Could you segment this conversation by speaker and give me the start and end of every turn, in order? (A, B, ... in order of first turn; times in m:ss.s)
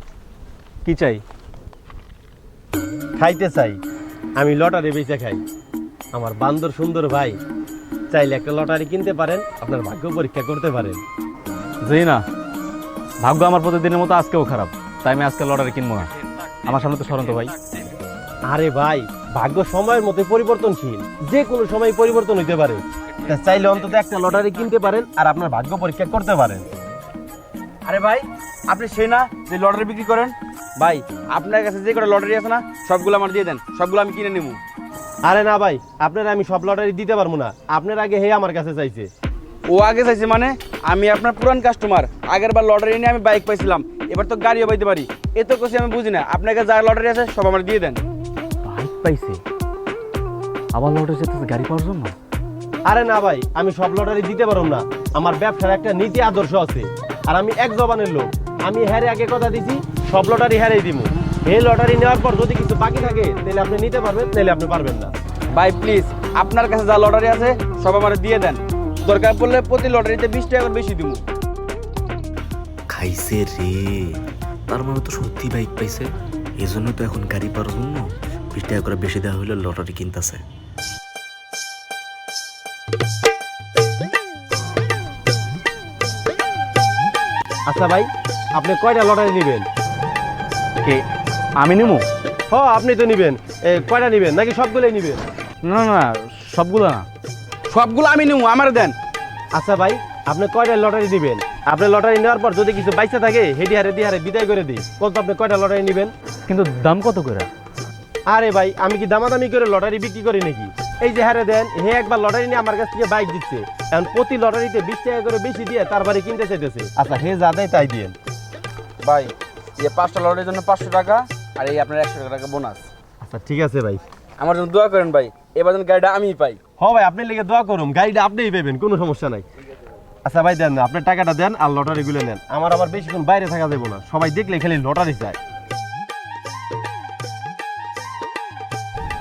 0:00.8-0:01.2 A
0:03.2-0:03.8 A
0:04.4-0:05.4 A
0:06.1-0:07.4 A
0:08.1-0:11.0 A
0:11.8-0:12.2 B
0:13.2-0:16.1 B
0:16.6-0:17.5 B
0:18.5-0:26.7 A
0:27.8-0:34.6 C
0:35.2-0:39.1 A
0:39.7-0:48.0 C
0:48.6-0:49.4 B
0:50.7-0:52.1 B
0:52.8-1:05.1 A
1:05.5-1:11.2 C
1:12.9-1:20.4 D
1:27.6-1:29.7 A
1:31.6-1:32.0 C
1:32.5-1:35.2 A
1:35.6-1:37.0 B
1:37.7-1:38.9 C
1:39.5-1:46.1 A
1:46.5-1:47.5 B
1:48.3-1:58.2 A
1:59.0-2:02.8 C
2:03.2-2:04.0 A
2:04.4-2:06.6 C
2:06.8-2:09.4 A
2:10.2-2:15.4 A